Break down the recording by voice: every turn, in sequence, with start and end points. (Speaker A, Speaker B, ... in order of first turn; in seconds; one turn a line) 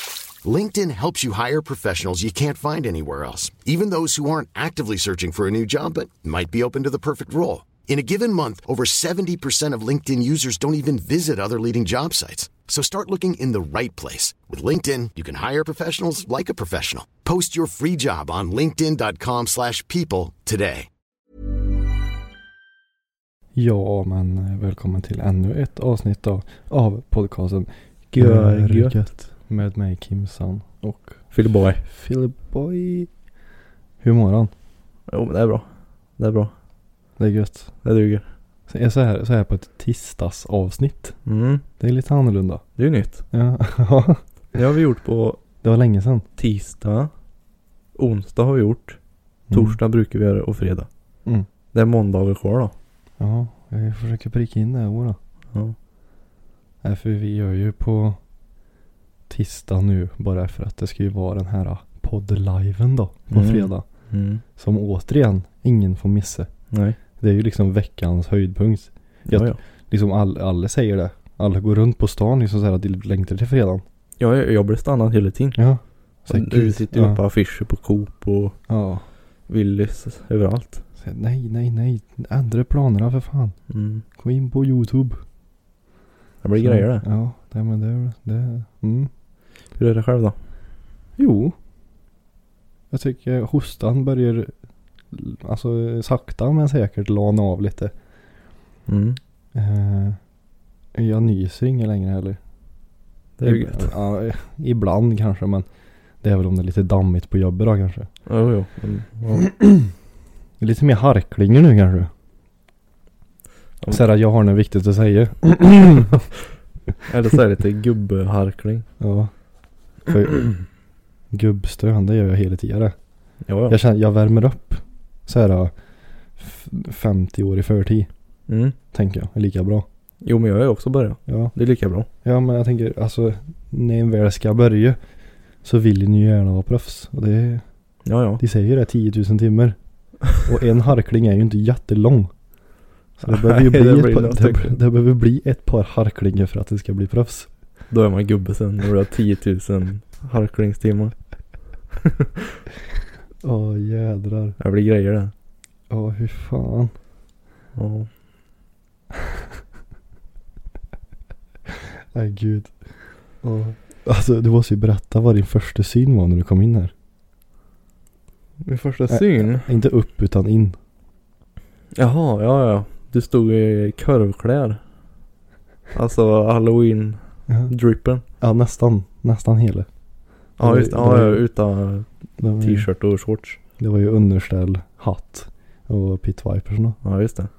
Speaker A: 0.4-20.9
Speaker B: 23.5-31.2
Speaker C: 28.1-29.0
Speaker C: 31.3-31.8
Speaker B: 31.8-33.1
Speaker B: 34.0-34.5
Speaker C: 35.1-36.5
Speaker B: 37.2-37.7
Speaker C: 37.8-38.2
Speaker B: 38.7-41.2
Speaker C: 41.2-41.6
Speaker B: 41.8-42.6
Speaker C: 42.8-43.2
Speaker B: 43.3-44.2
Speaker C: 44.5-45.4
Speaker B: 45.6-46.3
Speaker C: 46.4-47.1
Speaker C: 48.0-49.0
Speaker B: 49.5-49.8
Speaker C: 49.5-50.9
Speaker C: 51.7-52.7
Speaker B: 53.2-55.2
Speaker B: 56.8-58.2
Speaker B: 59.3-63.8
Speaker C: 63.3-64.4
Speaker B: 64.5-66.5
Speaker C: 66.7-67.0
Speaker B: 67.2-73.8
Speaker C: 69.2-69.6
Speaker C: 74.2-75.6
Speaker B: 75.5-77.2
Speaker C: 76.2-78.6
Speaker B: 78.7-79.0
Speaker C: 79.5-80.8
Speaker B: 81.0-83.5
Speaker C: 83.7-84.0
Speaker B: 84.2-85.2
Speaker C: 86.4-87.0
Speaker B: 86.6-89.1
Speaker C: 89.8-90.4
Speaker B: 91.2-91.5
Speaker B: 92.9-94.5
Speaker B: 95.1-97.9
Speaker C: 98.9-99.2
Speaker B: 99.5-100.2
Speaker B: 100.9-102.4
Speaker C: 103.4-103.9
Speaker B: 103.4-105.7
Speaker B: 106.2-108.1
Speaker C: 108.2-109.5
Speaker B: 109.4-109.9
Speaker B: 110.6-112.1
Speaker B: 113.9-116.3
Speaker C: 117.1-118.8
Speaker B: 119.0-119.3
Speaker B: 120.0-120.6
Speaker B: 121.3-122.9
Speaker C: 123.5-123.8
Speaker B: 123.7-125.7
Speaker B: 126.4-128.1
Speaker C: 128.5-128.8
Speaker B: 128.9-129.8
Speaker C: 130.2-132.1
Speaker B: 131.3-131.5
Speaker B: 132.2-135.0
Speaker B: 135.6-137.6
Speaker C: 138.0-138.4
Speaker B: 138.4-139.8
Speaker B: 140.3-142.3
Speaker B: 143.2-147.5
Speaker C: 143.2-144.8
Speaker C: 147.9-151.1
Speaker B: 153.4-154.6
Speaker C: 154.6-155.3
Speaker B: 155.9-156.9
Speaker C: 157.8-158.1
Speaker B: 162.1-162.8
Speaker B: 163.4-166.9
Speaker C: 168.6-169.7
Speaker B: 169.1-170.8
Speaker C: 171.9-174.8
Speaker C: 175.9-178.2
Speaker B: 178.4-179.9
Speaker B: 180.6-181.4
Speaker C: 180.6-182.1
Speaker B: 182.4-182.9
Speaker C: 182.6-183.6
Speaker B: 183.8-187.0
Speaker C: 187.0-187.5